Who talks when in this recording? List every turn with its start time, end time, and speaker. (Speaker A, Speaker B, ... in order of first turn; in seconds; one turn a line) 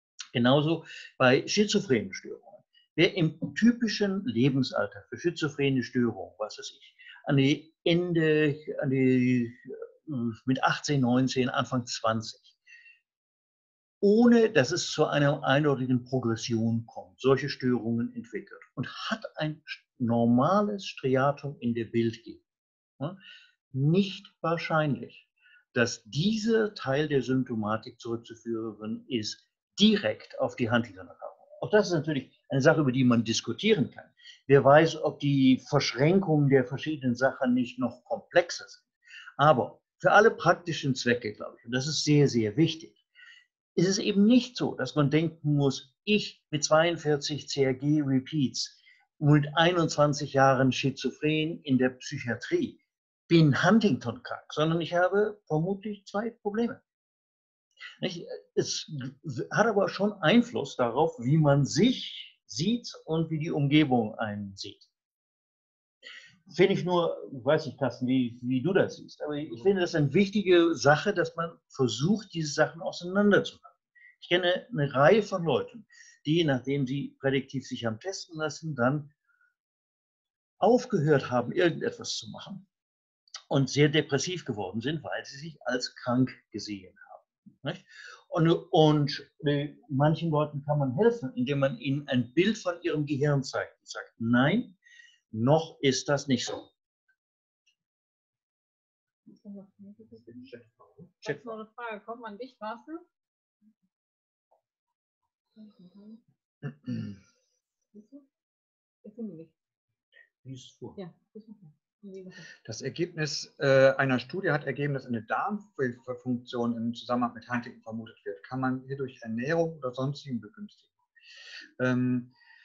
Speaker A: 0.3-12.6
Speaker A: 14.0-22.4
Speaker A: 23.7-38.8
Speaker A: 39.4-43.0
Speaker A: 43.7-56.8
Speaker A: 58.0-64.9
Speaker A: 66.5-79.1
Speaker A: 80.6-82.6
Speaker A: 83.5-94.8
Speaker A: 95.3-96.7
Speaker B: 99.4-100.3
Speaker C: 100.2-101.5
Speaker B: 101.2-103.0
Speaker B: 105.6-106.2
Speaker B: 107.9-108.2
Speaker B: 109.0-109.5
Speaker A: 110.4-111.0
Speaker B: 111.0-112.5
Speaker C: 112.6-120.9
Speaker C: 121.8-122.3